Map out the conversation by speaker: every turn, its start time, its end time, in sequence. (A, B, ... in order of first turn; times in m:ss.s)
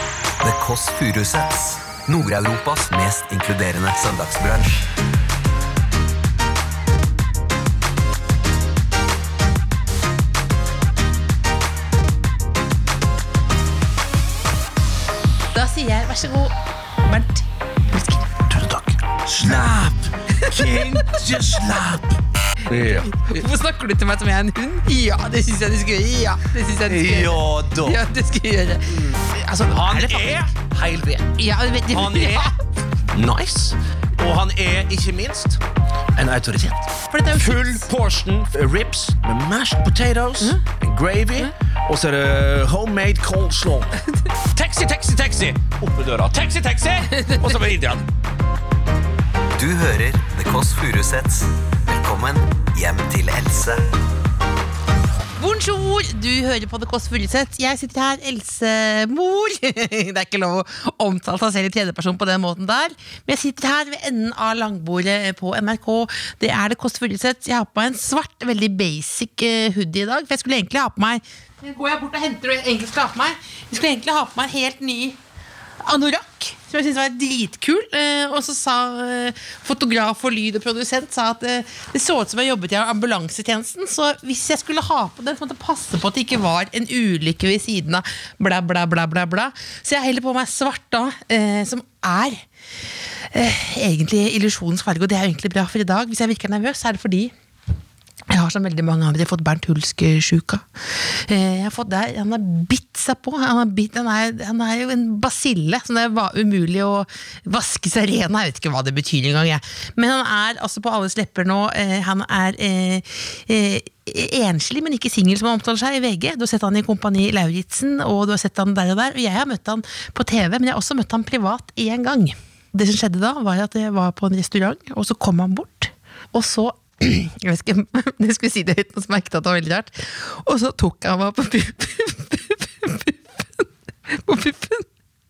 0:00.4-0:04.9 A
0:15.5-0:16.5 B
0:17.1-0:18.3 B
0:18.5-0:22.2 C
0:20.3-0:21.3 B
0:22.7-0:23.5 C
0:22.9-0:30.5 B
0:26.8-0:28.0 C
0:28.9-0:32.5 C
0:31.4-0:32.6 B
0:33.1-0:35.6 C
0:36.2-0:44.0 C
0:37.1-0:37.9 B
0:44.5-0:48.0 C
0:47.1-0:47.5 B
0:49.5-0:53.9 A
0:55.4-1:15.2 B
1:15.8-1:32.4 B
1:33.3-1:37.3 B
1:38.3-2:14.9 B